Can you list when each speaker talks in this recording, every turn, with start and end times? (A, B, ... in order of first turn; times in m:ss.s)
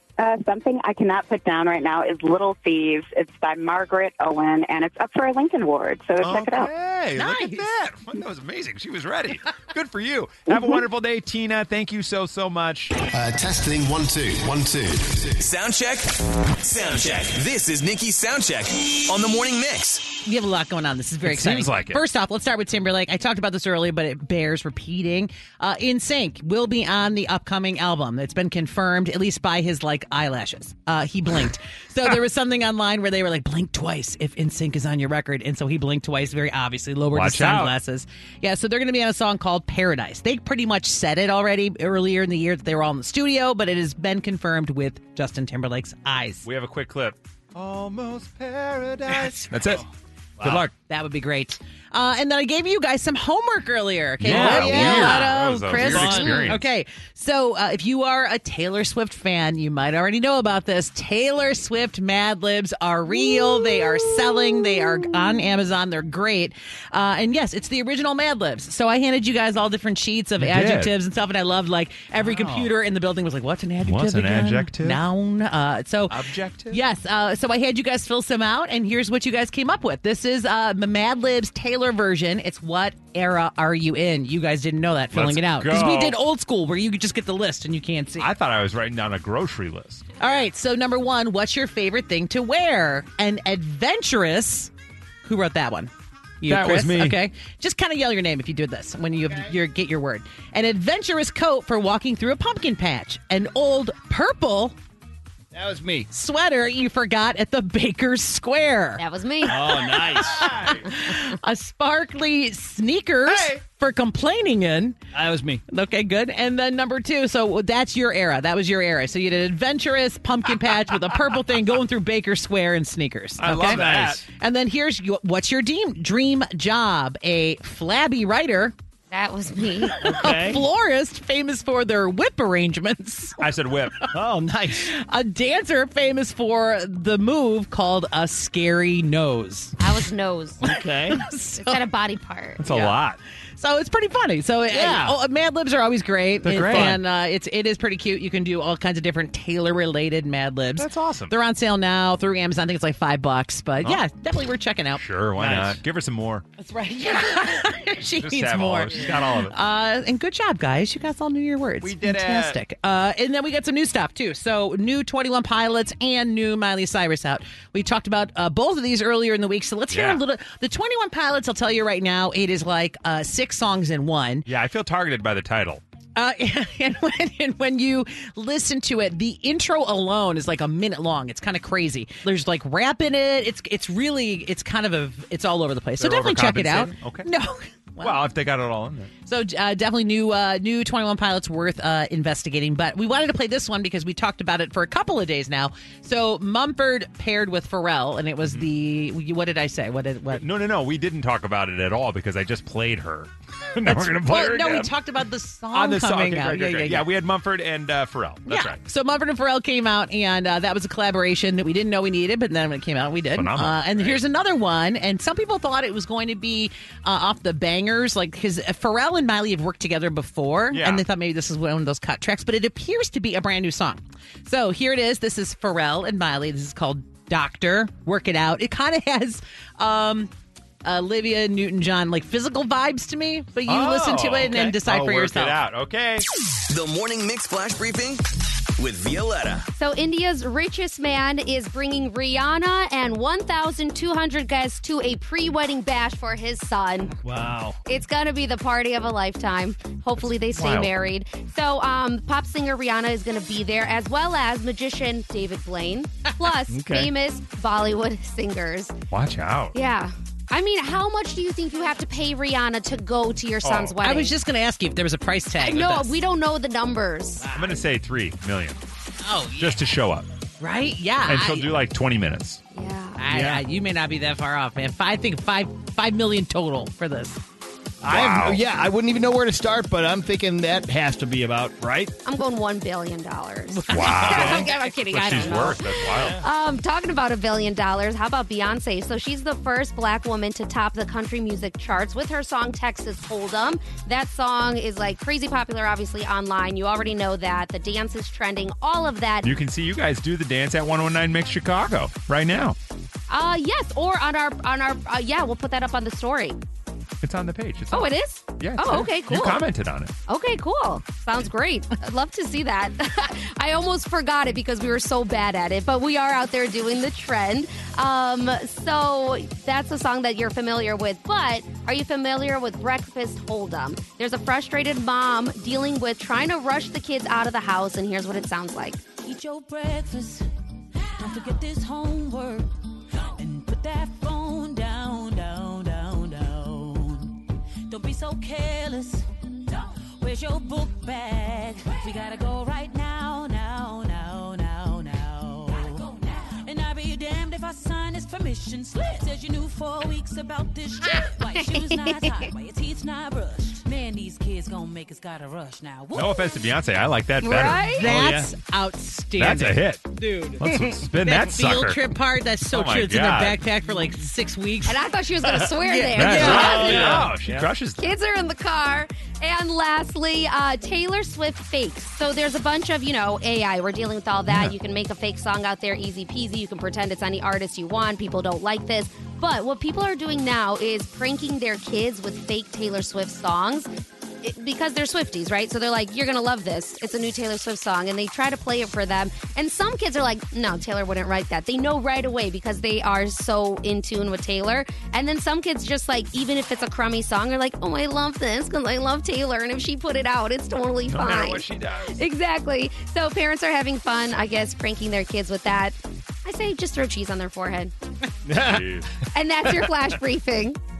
0:00.2-0:06.7 A
0:06.2-0:12.9 B
0:07.2-0:07.7 C
0:13.1-0:20.2 D
0:20.2-0:46.4 C
0:21.2-0:22.0 B
0:37.1-0:37.7 B
0:46.4-0:49.8 B
0:49.1-0:49.4 C
0:49.6-0:49.9 E
0:50.4-0:50.6 E
0:50.4-0:50.7 B
0:50.8-1:28.3 C
0:54.2-0:56.6 E
0:54.2-0:56.7 B
1:10.4-1:10.9 B
1:12.2-1:12.7 B
1:13.8-1:15.0 B
1:16.1-1:16.8 B
1:25.1-1:26.2 B
1:28.2-1:30.1 B
1:30.2-1:34.7 C
1:35.2-1:44.8 C
1:36.5-1:37.2 B
1:39.2-1:39.5 E
1:45.5-1:46.1 E
1:46.1-1:49.0 C
1:49.0-1:50.3 F
1:49.4-1:50.5 E
1:50.3-1:50.9 B
1:50.4-1:55.0 C
1:53.2-1:53.6 B
1:55.1-1:55.6 E
1:55.7-2:08.7 C
2:03.4-2:04.2 B
2:03.6-2:04.2 E
2:09.1-2:10.2 F
2:10.0-2:10.6 E
2:10.1-2:13.4 C
2:13.4-2:14.0 B
2:14.1-2:14.9 E
2:14.8-2:19.8 C
2:19.8-2:22.7 F
2:20.6-2:21.2 E
2:21.1-2:21.7 C
2:22.6-2:23.2 B
2:22.7-2:23.0 C
2:23.6-2:35.0 C
2:24.7-2:25.2 E
2:26.4-2:27.0 B
2:26.6-2:27.0 E
2:30.8-2:31.3 B
2:35.0-2:36.4 B
2:35.4-2:35.8 E
2:36.6-2:54.4 C
2:38.2-2:39.5 B
2:41.8-2:42.6 B
2:49.9-2:50.2 B
2:54.4-2:55.8 B
2:56.2-3:08.2 C
3:06.0-3:07.3 B
3:08.0-3:09.1 B
3:09.2-3:20.4 C
3:18.4-3:18.7 B
3:20.3-3:24.9 B
3:23.8-3:27.1 C
3:25.7-3:28.8 B
3:28.4-3:50.3 C
3:33.3-3:34.2 B
3:40.7-3:41.0 B
3:50.8-3:55.6 C
3:53.7-3:56.2 B
3:56.7-3:58.2 D
3:58.8-3:59.7 D
3:59.8-4:07.1 F
4:07.2-4:07.8 E
4:07.8-4:18.9 F
4:10.6-4:10.9 B
4:16.7-4:17.1 E
4:19.1-4:19.8 B
4:19.7-4:24.3 F
4:23.6-4:24.0 B
4:24.0-4:26.2 C
4:25.6-4:27.4 F
4:27.4-4:27.7 C
4:27.5-4:28.8 B
4:29.2-4:29.8 C
4:29.6-4:30.3 B
4:30.6-4:31.7 C
4:31.2-4:32.6 B
4:32.7-4:33.2 F
4:33.2-4:37.4 C
4:33.3-4:33.6 E
4:38.0-4:42.1 E
4:38.0-4:38.6 B
4:42.2-4:59.5 F
4:43.7-4:45.8 C
4:43.9-4:46.4 B
4:45.4-4:46.4 E
4:59.4-5:02.8 B
5:03.3-5:06.6 F
5:07.2-5:10.1 B
5:07.9-5:09.7 F
5:10.3-5:29.0 F
5:29.2-5:30.4 G
5:31.2-5:32.7 G
5:33.4-5:39.2 G
5:40.2-5:56.2 G
5:56.1-5:57.9 B
5:57.4-5:58.1 F
5:57.9-6:05.0 C
5:58.0-5:58.5 E
5:59.4-6:02.0 B
6:02.7-6:03.7 B
6:04.8-6:07.2 F
6:05.4-6:07.7 E
6:05.8-6:06.2 C
6:06.2-6:08.0 B
6:08.0-6:23.9 F
6:24.4-6:47.9 F
6:41.1-6:42.2 B
6:48.4-6:48.9 E
6:48.6-6:49.1 B
6:49.3-6:50.8 F